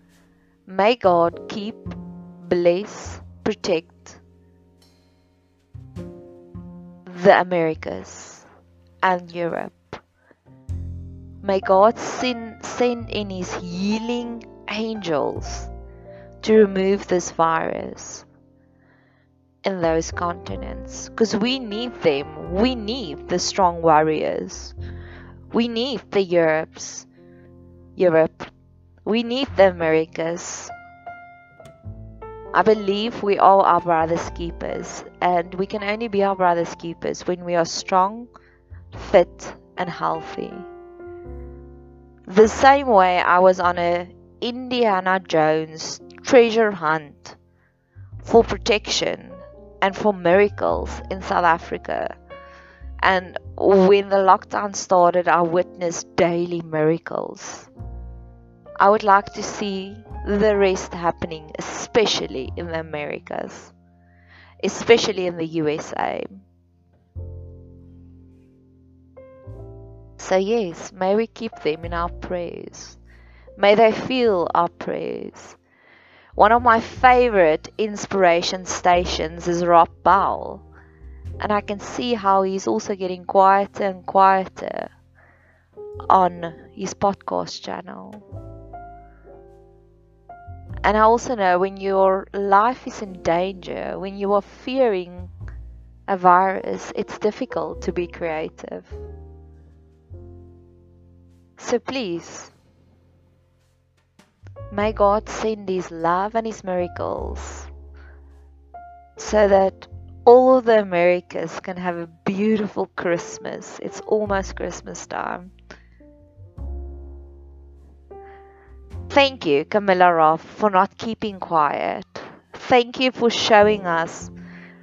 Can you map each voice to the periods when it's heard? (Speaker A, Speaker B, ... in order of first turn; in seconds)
Speaker A: 0.7-4.2, 7.0-8.4, 9.0-10.0, 11.4-15.7, 16.4-18.2, 19.6-24.7, 25.5-27.1, 28.0-28.5, 29.1-30.7, 32.5-38.3, 38.9-40.7, 42.3-47.4, 48.2-52.1, 53.0-57.7, 58.8-63.7, 64.6-66.4, 70.2-73.0, 73.6-75.6, 76.3-80.6, 81.4-84.9, 86.1-88.2, 90.8-95.3, 96.1-98.9, 101.6-102.5, 104.7-107.7, 109.2-115.5, 119.1-124.3